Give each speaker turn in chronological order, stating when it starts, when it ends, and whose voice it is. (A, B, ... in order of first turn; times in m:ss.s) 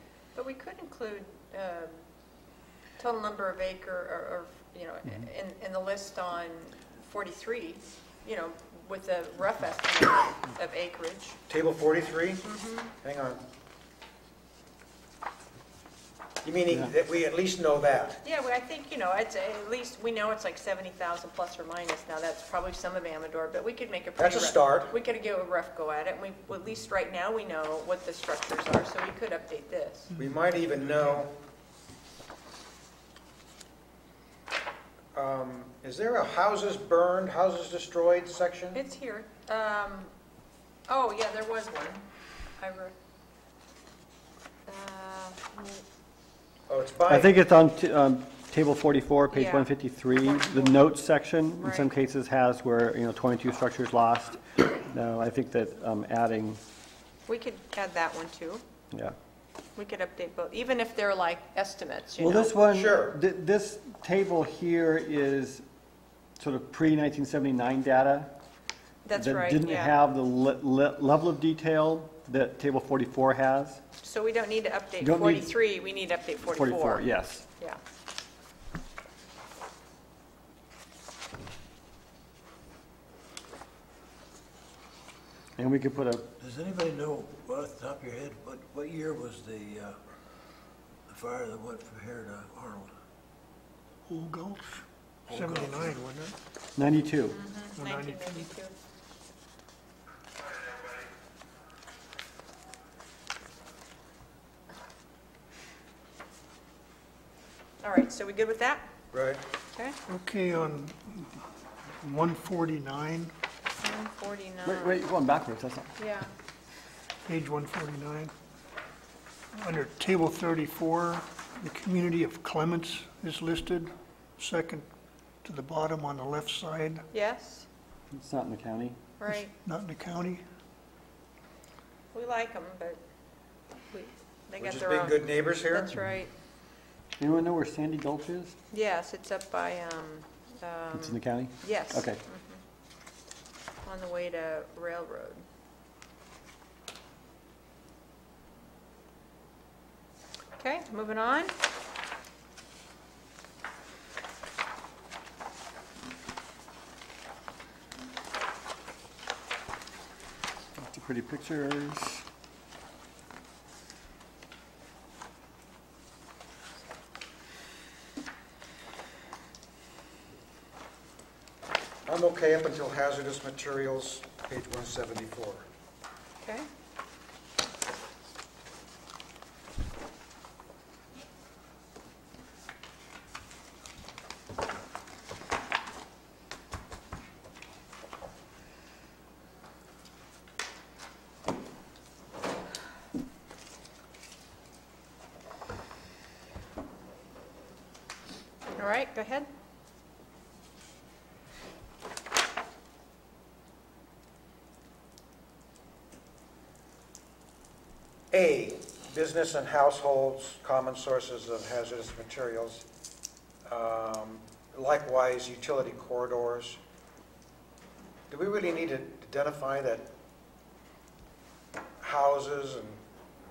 0:00.4-0:02.0 A
0:03.0-0:11.4 A
0:11.5-0:12.4 B
0:12.4-0:12.9 A
0:13.0-0:13.4 B
0:16.4-0:18.2 B
0:18.2-0:30.1 A
0:24.2-0:24.9 B
0:30.2-0:31.3 B
0:35.2-0:38.8 B
0:38.7-0:40.1 A
0:40.9-0:42.0 A
0:42.6-0:42.9 A
0:44.7-0:45.8 A
0:46.7-0:47.3 B
0:47.1-0:56.6 C
0:49.3-0:50.9 A
0:51.6-0:51.9 A
0:57.3-0:58.6 A
0:59.8-1:02.5 A
1:02.2-1:05.6 C
1:02.7-1:03.2 B
1:06.4-1:08.3 C
1:09.0-1:09.9 A
1:09.1-1:13.8 C
1:14.0-1:17.0 A
1:15.0-1:15.5 C
1:16.6-1:17.4 C
1:25.6-1:26.3 C
1:26.4-1:30.0 D
1:31.1-1:32.9 D
1:34.1-1:36.4 E
1:35.3-1:35.9 D
1:36.8-1:37.4 C
1:37.3-1:38.7 A
1:37.8-1:38.5 E
1:47.8-1:48.9 A
1:49.1-1:49.4 B
1:50.1-1:51.4 E
1:52.0-1:53.3 E
1:53.8-1:55.0 A
1:54.6-1:55.9 C
1:56.0-1:56.3 A
1:57.3-1:58.3 E
1:59.6-2:04.9 E
2:05.4-2:07.0 E
2:07.1-2:07.7 A
2:08.1-2:09.0 C
2:09.2-2:09.5 A
2:09.6-2:10.4 E
2:12.1-2:13.0 A
2:13.9-2:16.3 A
2:14.6-2:15.9 B
2:17.2-2:18.6 C
2:18.7-2:22.6 A
2:20.9-2:22.2 C
2:23.8-2:25.4 A
2:30.6-2:31.6 A
2:40.8-2:42.2 C
2:52.1-2:55.6 B
3:18.8-3:19.5 A
3:28.3-3:32.8 B
3:33.7-3:36.8 B
3:38.3-3:40.1 B
3:42.0-3:43.0 B